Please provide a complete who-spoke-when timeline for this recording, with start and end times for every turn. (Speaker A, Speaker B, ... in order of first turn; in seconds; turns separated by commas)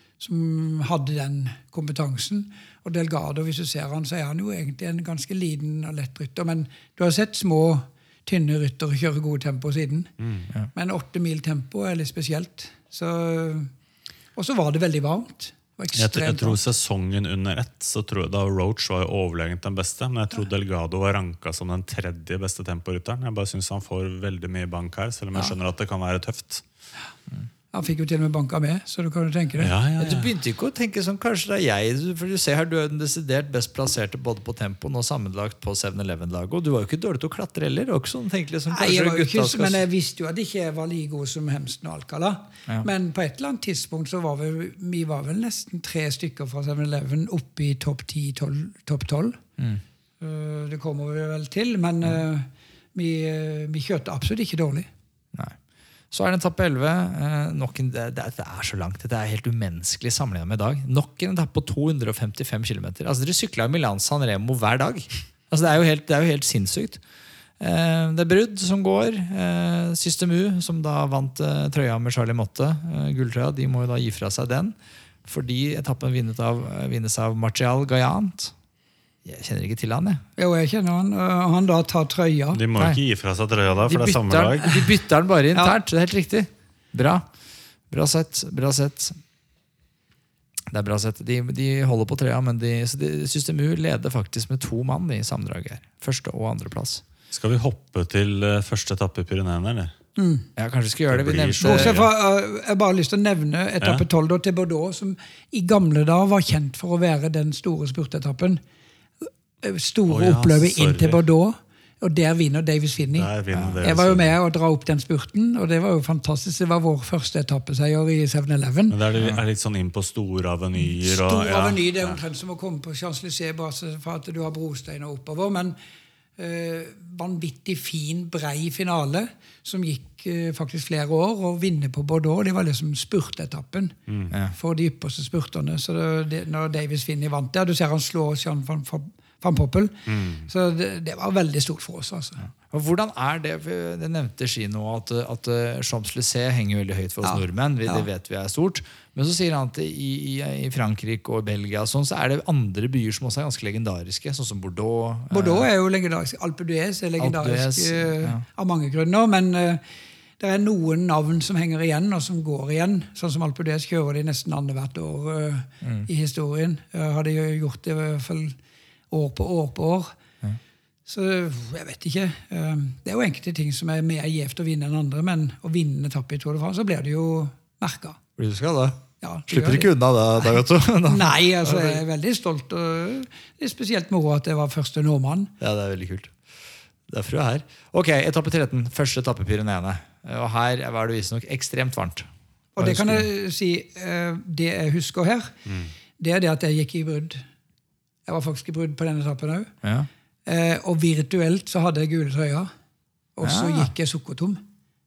Speaker A: 0.2-10.1, Speaker B: 10.2-10.5, Speaker A: 10.7-13.7, Speaker A: 14.3-16.6, Speaker B: 15.9-26.6, Speaker A: 27.7-30.2, Speaker B: 29.6-30.3, Speaker C: 30.0-39.8, Speaker A: 38.7-49.4, Speaker A: 50.2-54.9, Speaker C: 56.1-67.0, Speaker C: 67.6-78.5, Speaker C: 79.2-80.2, Speaker A: 80.4-82.6, Speaker B: 82.5-84.8, Speaker C: 82.8-83.0, Speaker C: 83.8-87.3, Speaker C: 87.9-89.2, Speaker C: 90.7-97.0, Speaker B: 97.3-99.9, Speaker A: 100.2-100.5, Speaker C: 100.6-101.9, Speaker B: 101.1-102.1, Speaker A: 101.6-108.6, Speaker A: 109.6-113.3, Speaker B: 110.1-111.2, Speaker B: 113.1-114.3, Speaker C: 113.5-113.8, Speaker A: 113.8-119.0, Speaker B: 118.9-122.2, Speaker A: 120.8-125.8, Speaker A: 126.4-133.9, Speaker B: 134.1-134.3, Speaker A: 134.5-142.4, Speaker B: 140.1-140.5, Speaker C: 142.6-155.7, Speaker A: 147.2-148.1, Speaker A: 155.3-159.8, Speaker C: 157.2-158.4, Speaker A: 160.4-168.6, Speaker C: 165.8-166.1, Speaker A: 169.1-170.2, Speaker A: 171.1-178.2, Speaker C: 178.4-182.0, Speaker A: 179.2-180.5, Speaker A: 181.1-185.5, Speaker C: 185.6-186.4, Speaker C: 187.1-193.2, Speaker A: 192.8-195.5, Speaker B: 195.7-195.9, Speaker A: 196.2-197.4, Speaker A: 198.2-199.7, Speaker C: 199.8-200.1, Speaker A: 200.4-202.7, Speaker A: 203.3-204.6, Speaker C: 203.4-203.9